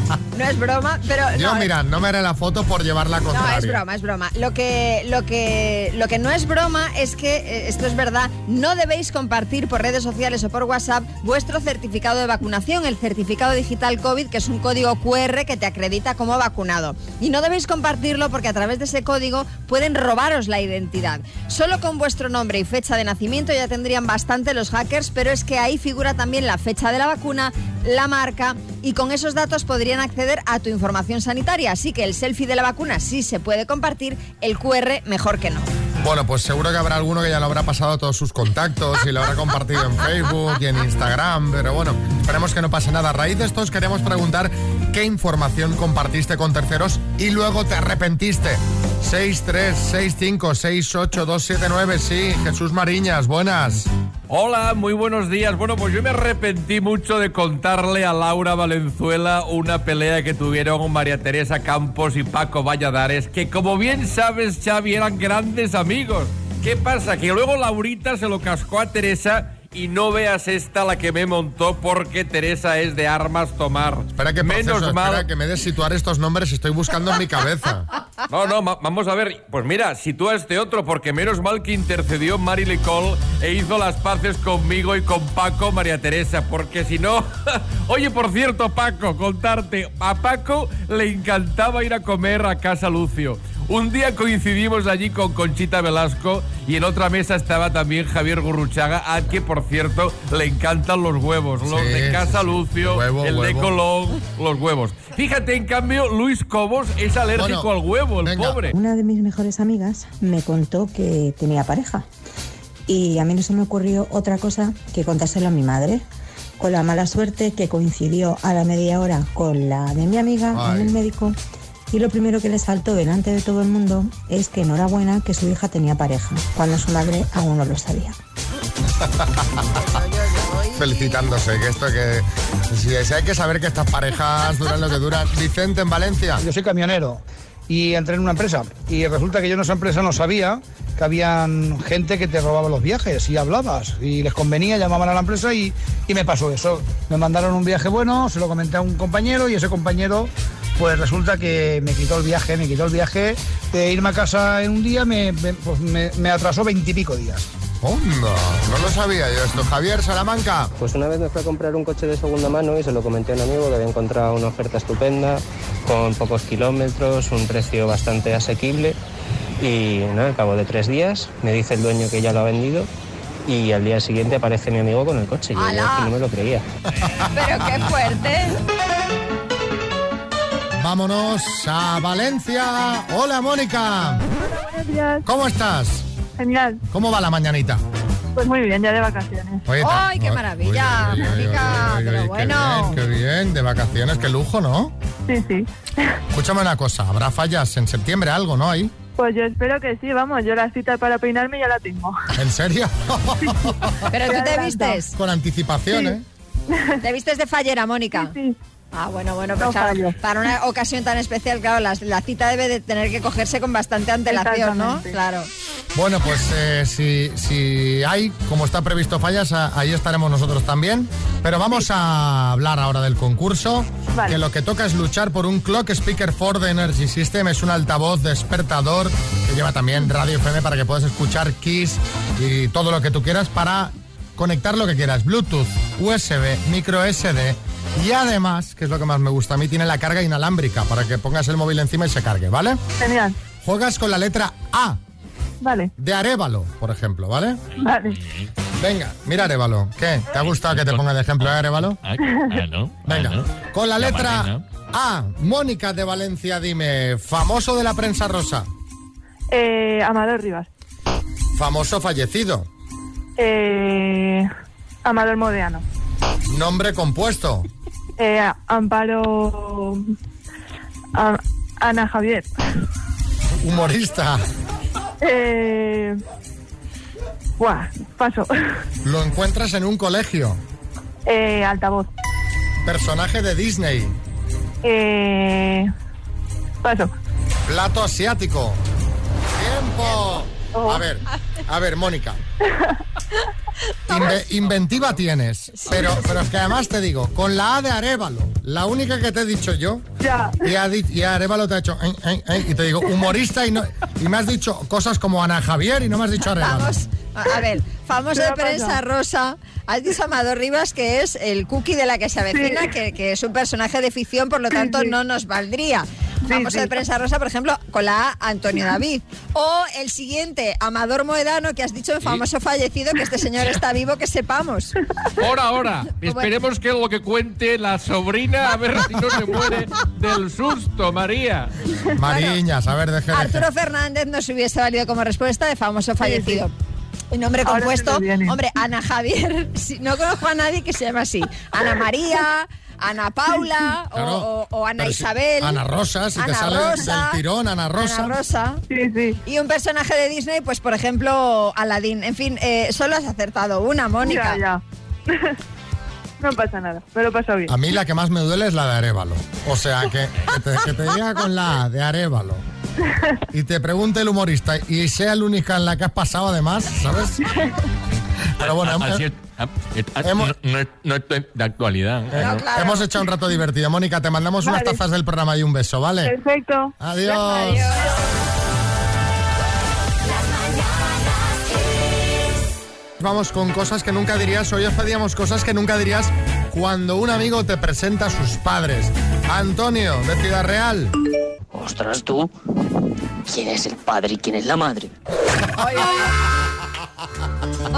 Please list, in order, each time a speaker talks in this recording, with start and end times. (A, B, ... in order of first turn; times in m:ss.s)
0:00.3-0:01.7 A
0:01.3-0:03.8 B
0:03.3-0:35.7 A
0:36.0-0:53.9 B
0:54.3-1:15.3 C
1:14.1-1:17.9 B
1:18.3-1:48.7 C
1:41.6-1:43.7 B
1:47.3-1:47.7 B
1:48.2-1:48.6 B
1:48.7-1:52.0 D
1:52.9-1:56.0 D
1:56.6-2:01.4 D
2:00.5-2:01.0 B
2:01.9-2:08.2 D
2:09.7-2:11.2 A
2:10.8-2:16.4 B
2:16.4-2:37.5 E
2:37.8-2:40.7 B
2:40.8-2:49.0 F
2:49.6-2:52.9 F
2:53.5-2:56.6 F
2:55.6-2:56.2 A
2:57.3-2:58.6 A
3:00.8-3:04.2 B
3:04.4-3:05.2 G
3:05.2-3:06.0 B
3:06.4-3:06.8 G
3:06.9-3:07.8 B
3:08.4-3:09.7 G
3:09.6-3:14.9 B
3:09.8-3:13.0 A
3:15.3-3:16.2 G
3:16.3-3:18.9 B
3:19.2-3:22.1 G
3:22.4-3:23.9 B
3:24.1-3:25.1 A
3:24.2-3:25.0 G
3:25.1-3:26.2 B
3:25.9-3:26.2 G
3:27.0-3:28.3 A
3:28.1-3:28.6 G
3:28.9-3:35.5 A
3:29.6-3:30.2 G
3:34.3-3:35.2 G
3:35.9-4:02.8 B
3:44.2-3:44.4 G
4:03.0-4:03.3 G
4:03.6-4:05.0 B
4:05.6-4:05.9 G
4:06.0-4:07.6 B
4:07.8-4:08.2 G
4:08.8-4:12.0 B
4:10.6-4:13.4 H
4:12.2-4:12.6 G
4:13.0-4:18.7 B
4:14.0-4:14.6 H
4:19.5-4:20.7 G
4:21.6-4:22.7 B
4:23.4-4:24.5 G
4:25.0-4:25.8 G
4:26.5-4:27.7 B
4:28.2-4:30.0 G
4:31.1-4:32.5 G
4:33.6-4:34.4 B
4:35.2-4:36.2 G
4:37.6-4:38.5 G
4:39.0-4:40.6 B
4:41.2-4:42.1 G
4:42.8-4:44.1 B
4:44.8-4:45.9 G
4:46.8-4:47.1 G
4:47.7-4:48.8 B
4:49.5-4:52.4 B
4:50.7-4:51.0 G
4:54.1-5:00.0 B
5:00.2-5:00.7 G
5:00.6-5:06.9 B
5:06.5-5:24.9 A
5:08.3-5:09.0 G
5:12.5-5:12.9 G
5:14.7-5:15.1 G
5:16.5-5:17.0 G
5:25.4-5:31.7 C
5:26.2-5:26.5 A
5:32.2-5:33.7 B
5:32.3-5:32.6 A
5:33.3-5:36.7 A
5:36.2-5:36.6 G
5:37.3-5:45.8 A
5:37.6-5:38.6 G
5:44.1-5:48.3 B
5:46.4-5:47.4 A
5:48.0-5:48.8 A
5:48.9-5:49.4 G
5:49.4-5:54.6 A
5:54.2-5:54.8 G
5:56.4-5:57.7 G
5:57.7-6:02.6 B
6:03.5-6:07.5 B
6:08.6-6:09.2 B
6:08.6-6:12.6 H
6:10.2-6:10.6 B
6:12.3-6:16.3 B
6:12.4-6:13.1 A
6:14.6-6:15.0 G
6:16.2-6:16.9 G
6:17.0-6:17.9 B
6:17.2-6:18.1 A
6:23.2-6:31.1 B
6:31.8-6:32.4 I
6:33.5-6:35.0 I
6:35.8-6:36.3 A